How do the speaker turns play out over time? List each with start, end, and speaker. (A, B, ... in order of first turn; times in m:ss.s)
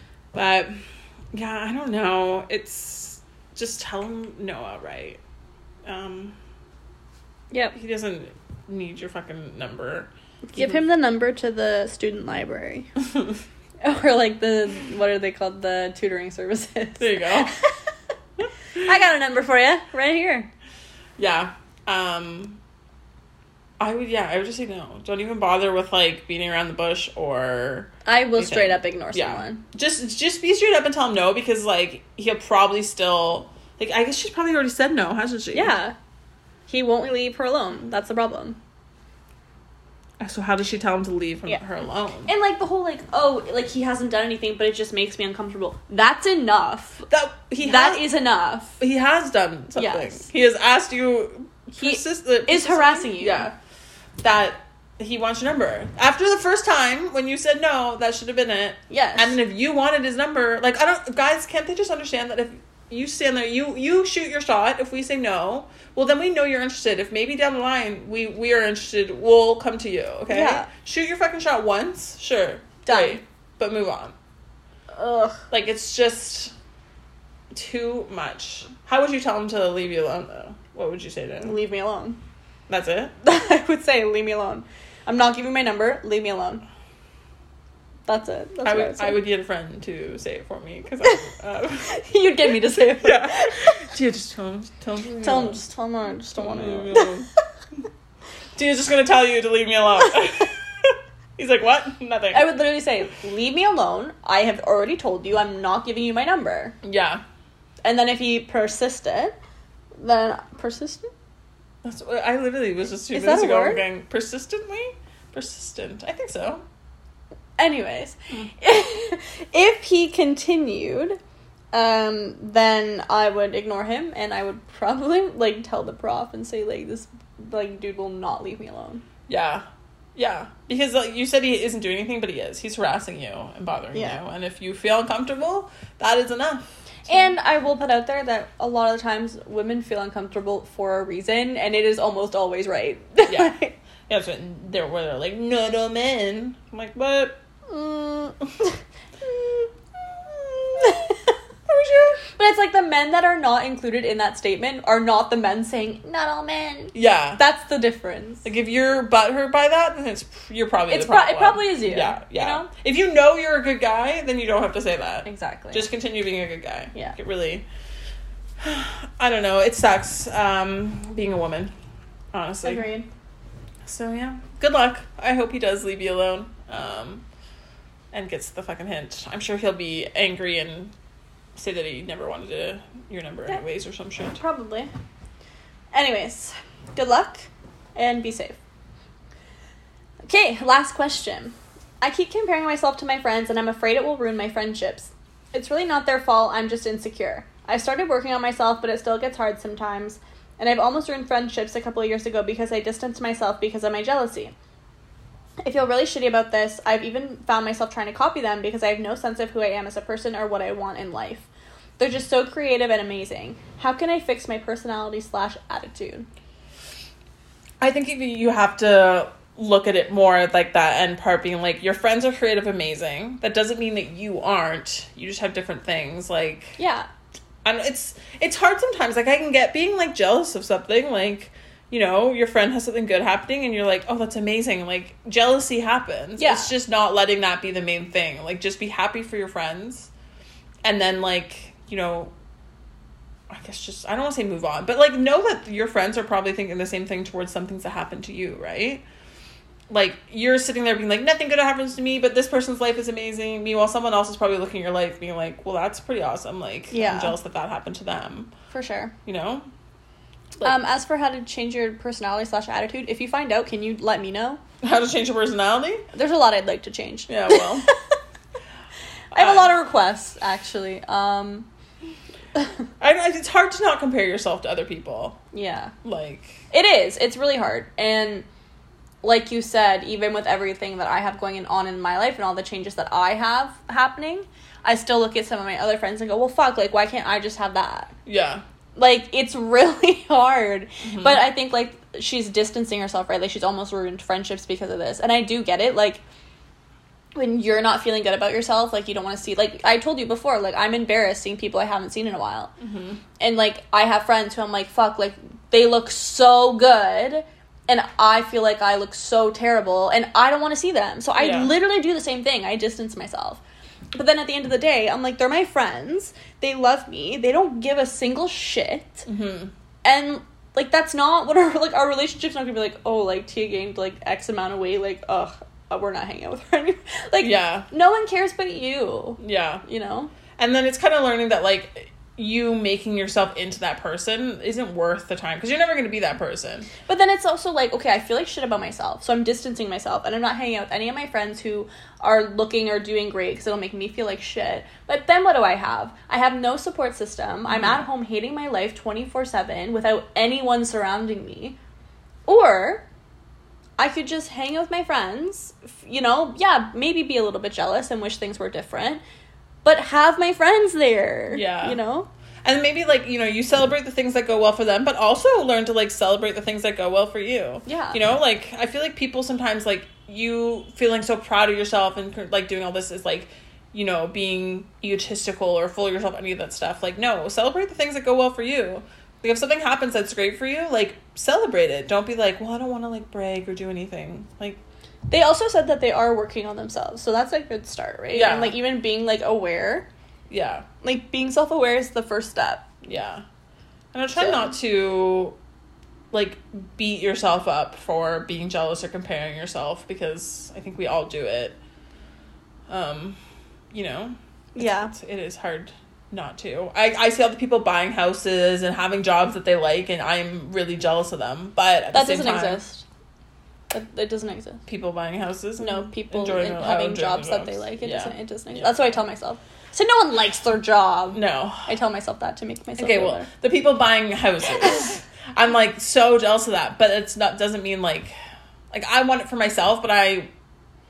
0:00.3-0:00.8 A
0:01.3-0:05.2 A
0:05.8-0:06.4 A
0:07.5-0:07.8 B
0:07.7-0:10.8 A
0:10.5-0:12.9 B
0:13.8-0:17.8 B
0:17.0-0:17.6 A
0:18.8-0:20.5 B
0:21.2-0:22.6 A
0:23.8-0:35.8 A
0:28.0-0:29.6 B
0:35.5-0:35.9 B
0:36.7-0:38.6 B
0:40.2-0:42.3 A
0:42.2-0:47.0 B
0:47.1-0:48.0 A
0:47.6-0:48.8 B
0:48.8-0:53.5 A
0:49.8-0:50.2 B
0:51.8-0:53.5 B
0:54.2-1:14.1 A
0:58.9-0:59.4 B
1:10.3-1:10.7 B
1:12.8-1:13.2 B
1:14.9-1:15.4 B
1:15.5-1:16.5 A
1:17.5-1:21.6 A
1:21.4-1:22.2 B
1:22.7-1:23.1 A
1:23.2-1:26.6 B
1:28.1-1:29.2 B
1:28.6-1:32.0 A
1:31.8-1:33.8 B
1:32.8-1:35.6 A
1:35.0-1:37.1 B
1:36.4-1:37.3 A
1:38.6-1:42.5 A
1:42.3-1:46.8 B
1:46.8-1:47.2 A
1:47.8-1:49.3 B
1:50.0-1:51.1 B
1:51.8-1:56.6 A
1:53.1-1:53.8 B
1:57.6-2:01.2 B
2:01.7-2:09.0 B
2:09.3-2:09.6 A
2:10.2-2:17.2 A
2:13.9-2:14.2 B
2:17.1-2:23.7 B
2:23.2-2:23.6 A
2:24.1-2:27.4 A
2:27.7-2:28.7 B
2:30.8-2:31.3 B
2:31.7-2:32.2 A
2:32.2-2:38.4 B
2:36.9-2:37.4 A
2:38.4-2:47.6 A
2:40.9-2:42.7 B
2:45.2-2:45.9 B
2:48.6-2:51.7 A
2:52.3-2:52.9 A
2:52.6-2:53.1 B
2:53.8-2:57.2 A
2:58.1-3:00.9 A
3:01.6-3:04.4 A
3:04.3-3:04.9 B
3:05.9-3:08.6 B
3:10.2-3:24.5 B
3:25.6-3:31.4 B
3:32.0-3:36.3 B
3:37.8-3:46.8 A
3:46.8-3:47.1 B
3:47.6-4:00.1 A
3:56.4-3:56.7 B
4:00.8-4:02.3 A
4:03.5-4:09.0 A
4:09.9-4:18.5 A
4:16.9-4:17.4 B
4:18.7-4:19.1 B
4:19.2-4:19.7 A
4:20.6-4:24.6 B
4:24.8-4:26.1 A
4:26.1-4:28.0 B
4:27.3-4:27.9 A
4:29.3-4:29.7 A
4:29.3-4:31.7 B
4:33.0-4:35.4 A
4:35.5-4:35.9 B
4:36.0-4:36.6 A
4:36.7-4:38.4 B
4:39.2-4:48.1 B
4:48.2-4:48.6 A
4:49.0-4:56.2 B
4:51.0-4:51.5 A
4:57.3-5:02.7 B
5:02.8-5:03.2 A
5:03.4-5:13.6 B
5:11.4-5:11.7 A
5:14.1-5:19.2 B
5:19.2-5:19.7 A
5:20.0-5:30.3 B
5:27.4-5:27.9 A
5:29.4-5:29.8 A
5:30.6-5:36.9 A
5:37.1-5:51.8 B
5:47.8-5:48.0 A
5:52.4-5:53.0 B
5:54.0-5:59.2 B
5:59.8-6:02.3 B
6:01.5-6:02.0 A
6:02.6-6:24.8 A
6:07.8-6:08.2 B
6:25.3-6:30.1 B
6:28.3-6:28.8 A
6:30.5-6:30.8 A
6:31.0-6:32.8 B
6:33.0-6:33.4 A
6:34.1-6:35.6 A
6:34.4-6:34.7 B
6:36.3-6:41.8 A
6:42.9-6:43.4 A
6:43.9-6:52.8 A
6:44.7-6:45.1 B
6:52.1-6:53.0 B
6:53.9-6:54.8 B
6:54.9-6:59.1 A
6:55.8-7:03.5 B
7:01.3-7:01.9 A
7:03.0-7:08.3 A
7:08.9-7:10.5 A